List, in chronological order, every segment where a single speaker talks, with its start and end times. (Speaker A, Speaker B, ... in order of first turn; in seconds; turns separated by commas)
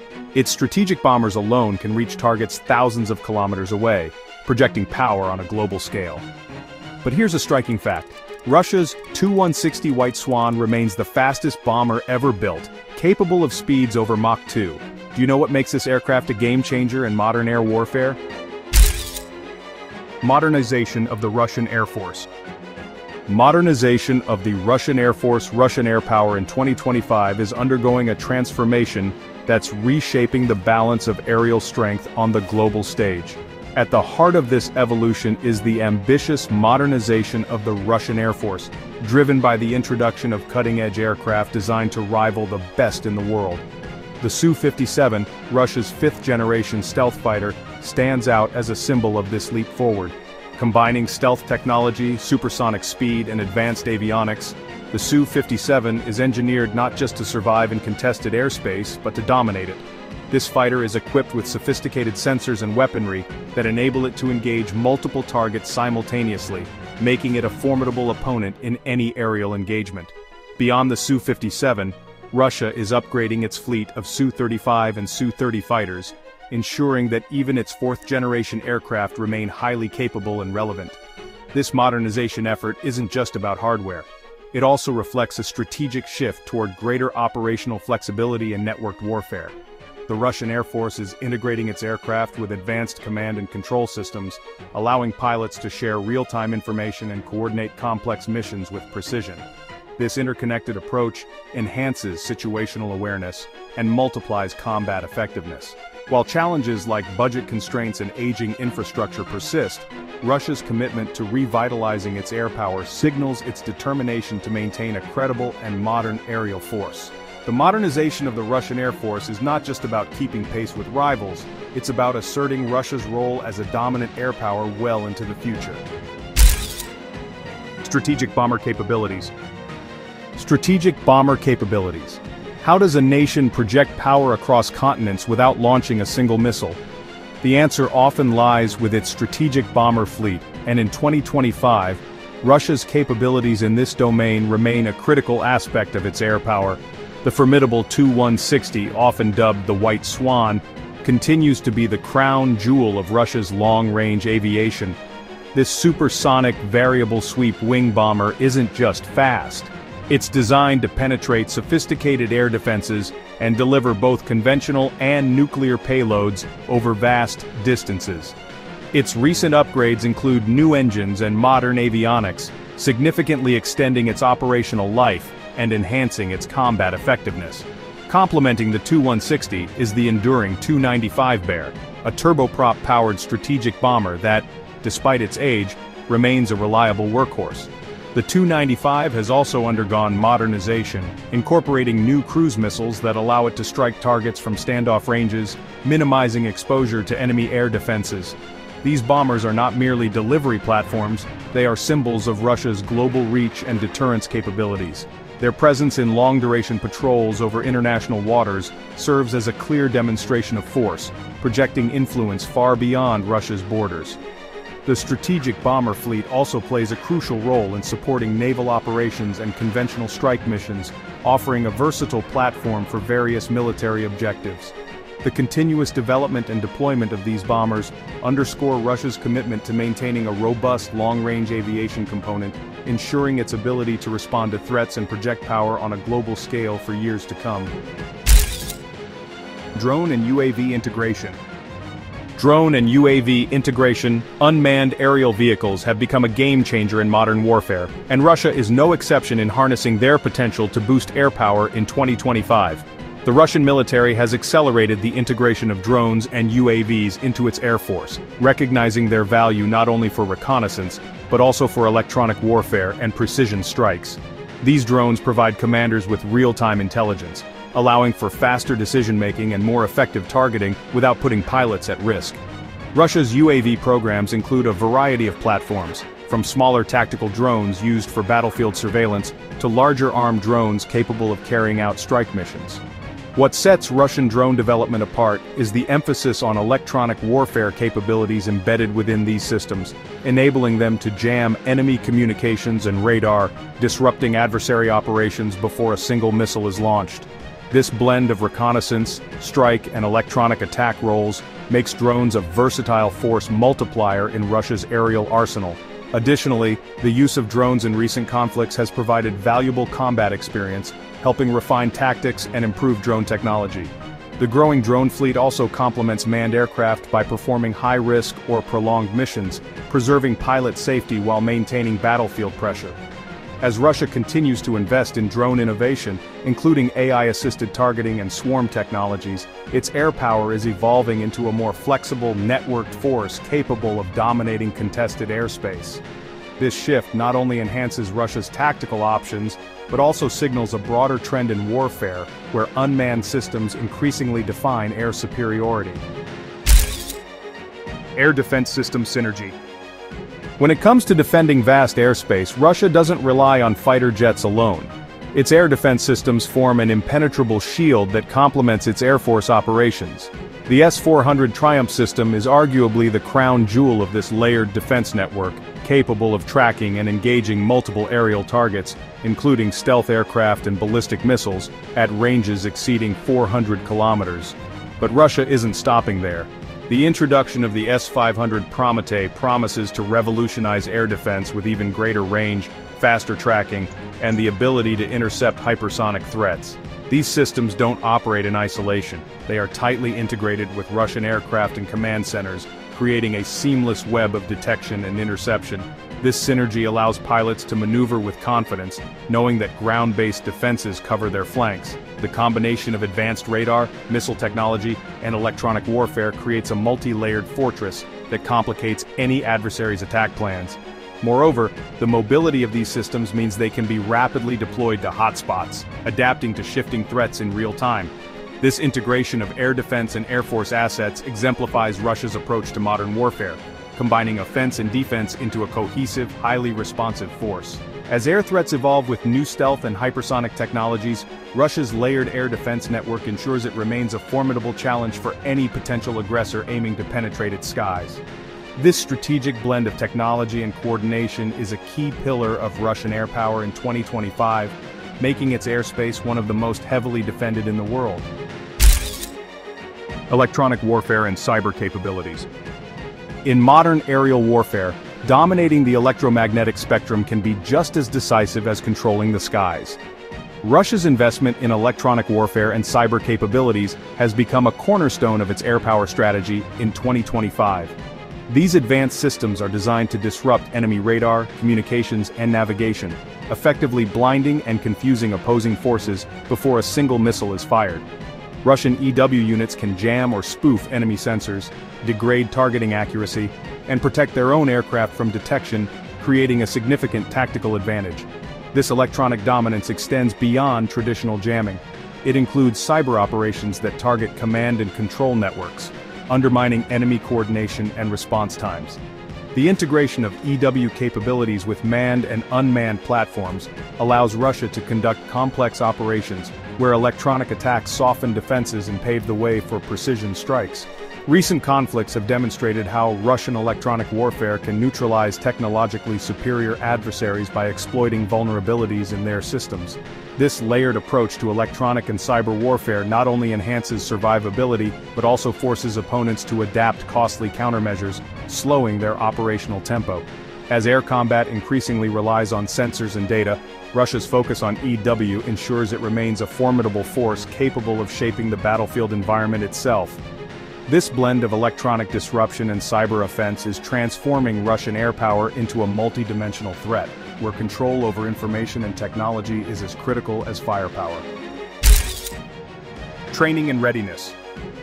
Speaker A: 0.3-6.2, Speaker A: 7.0-18.2, Speaker A: 20.2-22.3, Speaker A: 23.3-43.6, Speaker A: 44.2-81.0, Speaker A: 81.5-89.6, Speaker A: 90.1-99.5, Speaker A: 100.0-125.8, Speaker A: 127.8-129.3, Speaker A: 130.4-136.8, Speaker A: 137.4-155.0, Speaker A: 155.5-168.4, Speaker A: 168.9-214.2, Speaker A: 214.9-237.7, Speaker A: 239.8-241.4, Speaker A: 242.4-272.4, Speaker A: 272.9-282.8, Speaker A: 283.4-323.0, Speaker A: 323.6-336.0, Speaker A: 336.6-346.0, Speaker A: 348.2-349.6, Speaker A: 350.6-438.2, Speaker A: 438.8-448.3, Speaker A: 450.3-452.5, Speaker A: 453.4-460.0, Speaker A: 460.6-467.9, Speaker A: 468.5-478.1, Speaker A: 478.6-499.0, Speaker A: 499.5-540.2, Speaker A: 540.9-551.3, Speaker A: 553.3-554.4